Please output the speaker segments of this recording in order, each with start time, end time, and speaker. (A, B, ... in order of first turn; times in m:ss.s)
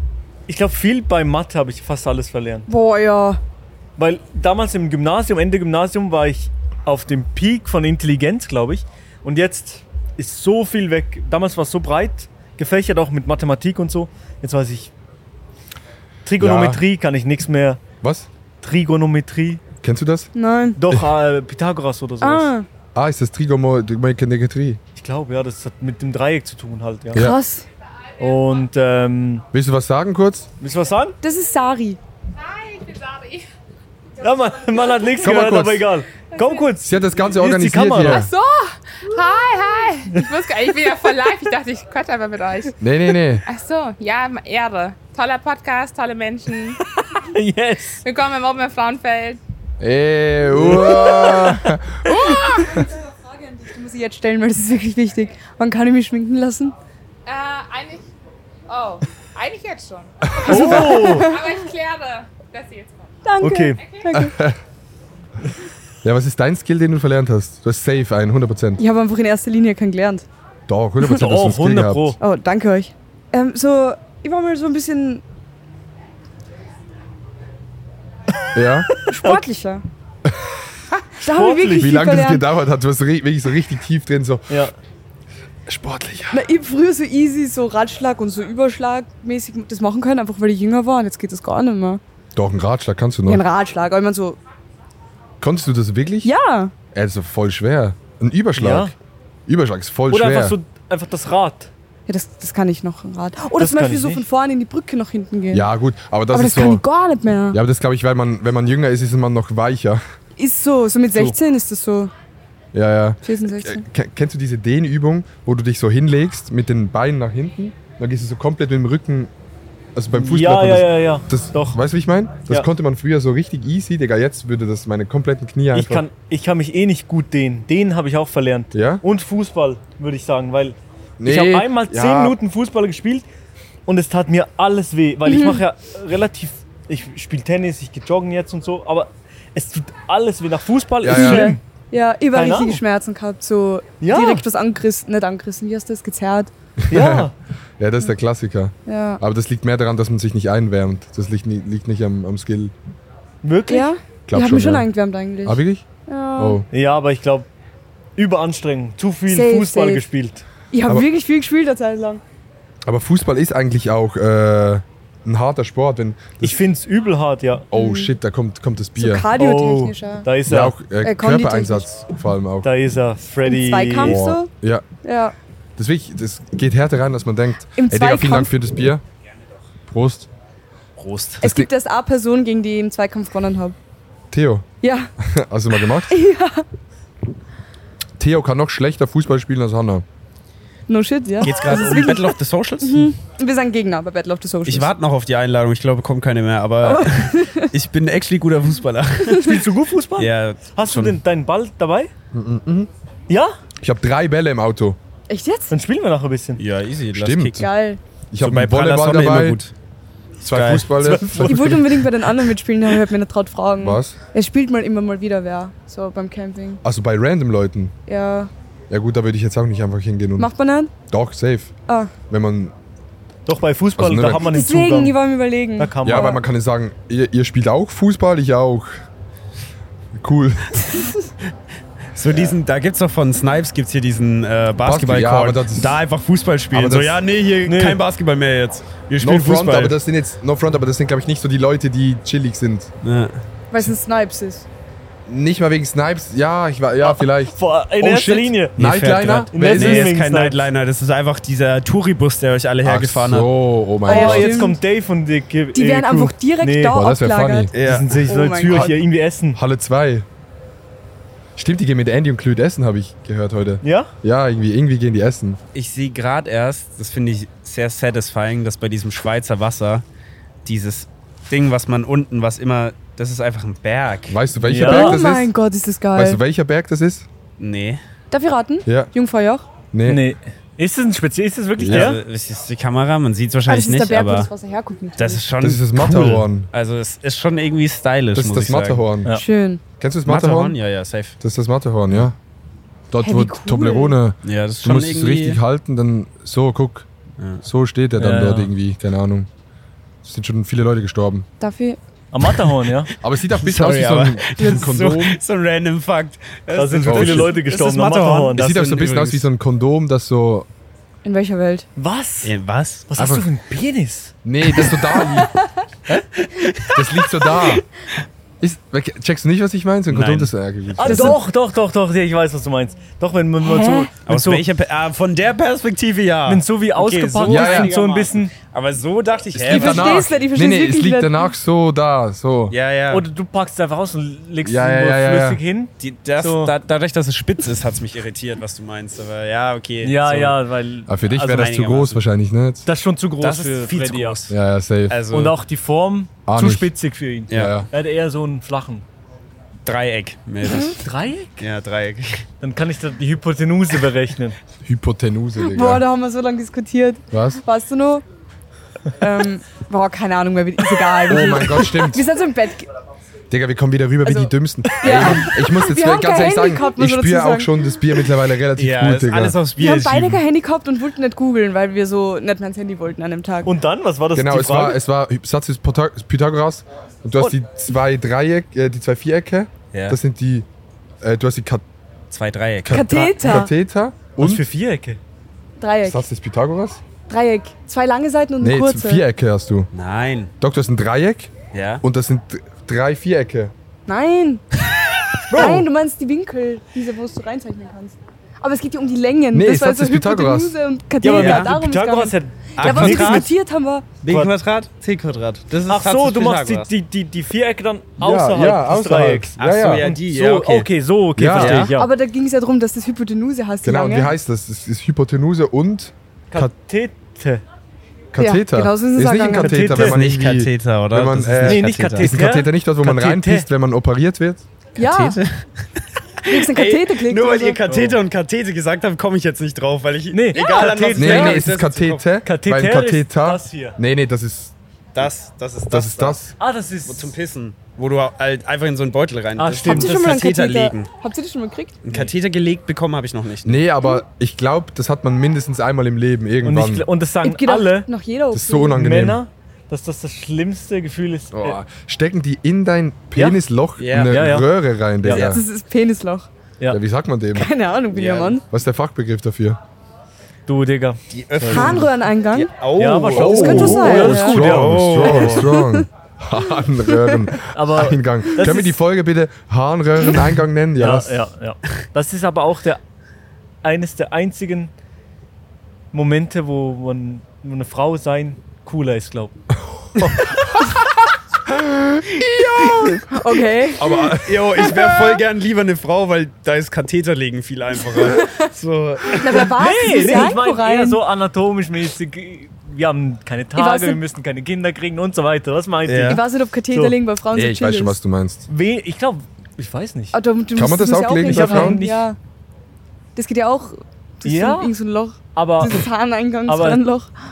0:00.5-0:02.7 A
0:02.7-0:03.4 B
0:04.0-0:14.9 A
0:16.2-0:17.8 A
0:16.4-0:16.8 C
0:18.0-0:18.3 C
0:18.6-0:19.6 A
0:19.8-0:20.3 C
0:20.3-0:20.8 B
0:20.8-0:22.5 A
0:22.2-0:22.7 B
0:23.0-0:24.8 C
0:25.0-0:27.3 A
0:27.1-0:27.4 C
0:27.2-0:27.7 B
0:28.2-0:29.5 A
0:29.5-0:30.5 C
0:30.6-0:31.2 A
0:31.2-0:32.0 B
0:32.4-0:33.5 D
0:34.2-0:38.3 A
0:35.2-0:35.9 C
0:36.8-0:38.3 C
0:38.1-0:42.8 D
0:42.8-0:43.4 C
0:43.5-0:46.8 D
0:47.0-0:48.0 A
0:48.0-0:49.4 D
0:49.8-0:52.9 C
0:50.5-0:51.7 A
0:52.2-0:52.9 B
0:53.5-0:56.8 B
0:57.3-0:58.1 D
0:58.7-1:03.2 D
1:00.3-1:00.7 C
1:00.4-1:01.3 A
1:00.5-1:01.5 B
1:03.2-1:04.4 B
1:03.4-1:03.8 A
1:03.8-1:04.1 D
1:04.2-1:04.6 C
1:06.0-1:08.8 C
1:08.8-1:10.2 B
1:10.7-1:12.2 C
1:11.0-1:12.2 A
1:12.2-1:15.2 B
1:18.5-1:18.9 C
1:19.0-1:19.8 B
1:19.1-1:19.4 A
1:21.2-1:22.0 A
1:21.2-1:22.4 B
1:21.8-1:24.6 C
1:25.7-1:26.4 C
1:26.3-1:32.0 B
1:32.4-1:33.4 C
1:33.3-1:34.4 B
1:35.4-1:36.3 C
1:36.2-1:36.7 B
1:36.9-1:38.9 C
1:38.6-1:38.9 A
1:39.5-1:40.6 C
1:40.1-1:41.7 A
1:42.1-1:45.7 B
1:43.6-1:44.2 A
1:45.5-1:46.8 C
1:46.3-1:47.6 B
1:47.5-1:50.0 C
1:50.4-1:52.1 B
1:51.1-1:51.4 A
1:52.7-1:59.3 C
1:53.2-1:53.8 B
2:00.0-2:06.1 C
2:00.1-2:01.8 A
2:05.7-2:13.3 A
2:08.7-2:09.0 C
2:11.2-2:12.4 C
2:13.9-2:21.6 A
2:15.2-2:15.6 B
2:21.0-2:21.6 C
2:21.1-2:26.5 B
2:22.3-2:22.8 A
2:24.0-2:24.5 A
2:26.8-2:32.7 C
2:26.9-2:27.3 A
2:28.9-2:29.2 B
2:33.4-2:33.9 A
2:33.7-2:36.6 B
2:34.3-2:34.9 C
2:35.4-2:35.8 C
2:36.4-2:36.7 C
2:36.7-2:37.5 A
2:38.2-2:40.4 A
2:39.3-2:40.0 B
2:40.7-2:42.2 B
2:42.9-2:46.6 C
2:46.4-2:47.7 A
2:47.7-2:49.3 C
2:47.7-2:48.2 B
2:49.0-2:50.3 B
2:49.3-2:50.8 A
2:50.5-2:52.7 C
2:51.0-2:52.0 B
2:52.6-2:54.2 A
2:53.4-2:54.5 B
2:54.0-2:54.9 C
2:55.0-2:55.4 B
2:55.8-2:59.0 C
2:57.8-2:58.5 B
2:59.9-3:00.3 C
3:01.0-3:01.4 E
3:01.4-3:01.7 C
3:01.4-3:03.8 B
3:04.3-3:04.7 C
3:04.8-3:05.1 B
3:05.2-3:06.2 C
3:06.1-3:06.6 B
3:08.2-3:10.0 C
3:10.9-3:14.9 B
3:11.4-3:13.1 E
3:14.6-3:19.6 E
3:16.8-3:17.7 B
3:19.4-3:22.1 A
3:20.2-3:21.2 E
3:22.3-3:22.9 C
3:23.3-3:23.6 A
3:23.8-3:25.0 C
3:25.3-3:25.7 B
3:25.7-3:26.6 A
3:26.6-3:27.7 E
3:27.1-3:27.6 C
3:27.5-3:28.0 B
3:28.3-3:29.6 C
3:28.4-3:29.7 E
3:30.4-3:31.5 E
3:30.4-3:31.8 C
3:31.0-3:31.9 A
3:31.5-3:36.8 B
3:33.8-3:34.2 C
3:36.8-3:38.0 C
3:38.1-3:38.5 B
3:38.9-3:40.5 C
3:40.4-3:40.9 B
3:41.1-3:41.7 C
3:41.9-3:42.1 B
3:42.3-3:42.7 C
3:43.5-3:45.2 A
3:44.0-3:44.5 C
3:44.4-3:46.4 B
3:45.8-3:46.4 A
3:46.0-3:49.0 C
3:50.2-3:51.0 C
3:52.2-4:00.0 E
3:54.8-3:56.0 C
3:56.7-3:57.2 C
3:57.7-3:58.0 A
3:59.2-4:02.9 C
4:03.0-4:03.4 E
4:03.7-4:04.6 B
4:05.3-4:10.2 C
4:07.0-4:08.8 A
4:08.8-4:13.5 E
4:09.5-4:10.6 A
4:12.8-4:14.7 C
4:14.0-4:14.7 B
4:14.1-4:17.0 A
4:15.7-4:17.7 B
4:16.9-4:17.7 C
4:17.7-4:18.9 E
4:17.8-4:19.6 A
4:18.3-4:18.9 B
4:19.5-4:20.2 C
4:21.6-4:25.6 C
4:23.8-4:24.1 A
4:25.8-4:30.0 E
4:30.6-4:34.7 E
4:34.3-4:35.5 C
4:34.7-4:35.2 A
4:34.8-4:36.4 B
4:36.2-4:37.3 C
4:37.6-4:38.0 E
4:38.3-4:39.7 B
4:38.9-4:39.1 C
4:39.9-4:40.2 C
4:40.0-4:42.2 A
4:41.8-4:42.1 C
4:41.9-4:44.5 E
4:43.7-4:45.4 B
4:45.2-4:49.0 E
4:45.6-4:46.7 C
4:48.4-4:49.3 C
4:49.3-4:49.8 B
4:50.0-4:50.8 C
4:50.3-4:51.4 E
4:51.4-4:52.4 C
4:53.1-4:57.1 C
4:53.2-4:54.2 B
4:54.4-4:55.6 E
4:57.6-4:59.5 C
4:58.2-4:58.7 A
5:00.2-5:01.5 C
5:01.6-5:02.0 B
5:02.3-5:03.1 A
5:03.2-5:05.4 C
5:03.5-5:09.5 E
5:06.7-5:08.8 A
5:07.1-5:07.5 C
5:08.6-5:10.7 C
5:11.2-5:11.9 B
5:12.0-5:12.6 A
5:12.4-5:13.1 E
5:13.1-5:14.3 A
5:13.2-5:13.5 C
5:14.4-5:15.5 C
5:14.8-5:15.5 B
5:16.1-5:17.8 E
5:16.9-5:17.8 C
5:18.6-5:21.4 C
5:20.1-5:20.5 E
5:21.0-5:24.6 A
5:21.1-5:21.4 B
5:23.7-5:24.1 B
5:24.2-5:30.3 E
5:26.5-5:28.5 A
5:27.5-5:27.9 C
5:29.6-5:32.8 C
5:29.6-5:31.5 B
5:32.7-5:33.3 E
5:33.1-5:36.7 A
5:34.6-5:35.6 C
5:36.0-5:40.6 E
5:40.0-5:41.7 A
5:41.1-5:42.9 C
5:41.4-5:42.2 E
5:42.9-5:44.5 A
5:43.4-5:44.5 E
5:44.5-5:45.2 C
5:45.1-5:45.6 E
5:45.3-5:49.0 A
5:46.5-5:46.9 C
5:47.5-5:47.8 E
5:47.5-5:47.9 C
5:49.9-5:51.0 E
5:50.6-5:51.0 B
5:51.0-5:51.7 A
5:51.6-5:52.4 E
5:52.6-5:54.6 A
5:54.8-5:56.0 C
5:55.6-5:58.2 B
5:57.3-5:57.6 C
5:59.2-6:02.9 B
6:01.3-6:02.2 C
6:03.5-6:09.6 C
6:04.3-6:07.7 B
6:08.8-6:10.4 E
6:09.8-6:13.7 B
6:13.6-6:15.0 A
6:14.4-6:20.7 C
6:21.2-6:21.8 C
6:22.3-6:23.1 E
6:22.8-6:24.6 C
6:22.9-6:23.7 B
6:24.4-6:25.2 A
6:25.8-6:26.2 B
6:26.0-6:27.0 C
6:27.3-6:29.2 B
6:28.6-6:29.9 C
6:29.9-6:30.5 E
6:30.6-6:33.7 C
6:31.7-6:32.0 E
6:34.1-6:34.6 B
6:35.4-6:35.8 E
6:35.5-6:35.9 A
6:35.5-6:44.1 B
6:39.5-6:40.8 C
6:41.2-6:43.5 A
6:41.2-6:41.7 E
6:42.8-6:43.5 E
6:44.2-6:46.9 E
6:44.3-6:44.5 A
6:45.9-6:52.1 A
6:48.2-6:50.0 C
6:49.6-6:50.9 E
6:51.4-6:51.9 C
6:51.5-6:51.9 E
6:52.0-6:54.3 B
6:53.8-6:56.7 C
6:56.5-6:57.6 A
6:58.3-7:04.6 C
6:58.4-6:59.8 B
6:59.6-7:00.2 A
6:59.9-7:02.4 E
7:01.6-7:03.7 A
7:05.0-7:05.4 B
7:05.0-7:12.2 E
7:06.5-7:07.8 B
7:07.9-7:08.2 A
7:10.3-7:11.7 A
7:11.2-7:14.7 C
7:12.4-7:14.0 A
7:15.2-7:21.1 E
7:15.9-7:16.5 C
7:16.6-7:17.4 A
7:19.6-7:20.2 A
7:19.8-7:22.0 B
7:22.0-7:23.8 E
7:23.6-7:27.1 C
7:26.6-7:28.1 A
7:27.4-7:29.0 B
7:28.5-7:29.4 C
7:28.9-7:31.8 A
7:31.5-7:35.6 C
7:33.4-7:33.6 A
7:34.0-7:34.4 E
7:34.3-7:34.7 A
7:35.2-7:35.5 A
7:35.3-7:35.6 E
7:35.3-7:36.5 B
7:36.9-7:37.7 C
7:37.5-7:38.6 B
7:38.1-7:38.6 E
7:38.7-7:39.8 C
7:40.7-7:42.1 A
7:41.3-7:45.7 E
7:41.6-7:42.7 B
7:43.0-7:45.7 A
7:43.3-7:51.4 C
7:43.3-7:44.6 B
7:45.2-7:46.1 B
7:47.7-7:49.0 A
7:51.0-7:53.0 A
7:53.8-7:54.9 A
7:56.1-7:59.6 A
8:00.2-8:00.9 C
8:01.7-8:05.4 C
8:02.6-8:03.0 E
8:03.3-8:04.3 B
8:04.4-8:09.8 E
8:08.1-8:08.6 B
8:09.3-8:11.2 B
8:09.8-8:17.2 A
8:13.8-8:14.2 B
8:16.1-8:16.4 E
8:16.3-8:18.2 B
8:17.5-8:18.7 C
8:18.7-8:20.4 A
8:20.3-8:22.4 B
8:20.7-8:22.0 C
8:21.4-8:22.3 A
8:23.4-8:27.3 B
8:24.4-8:25.0 A
8:25.6-8:26.1 A
8:26.7-8:27.0 A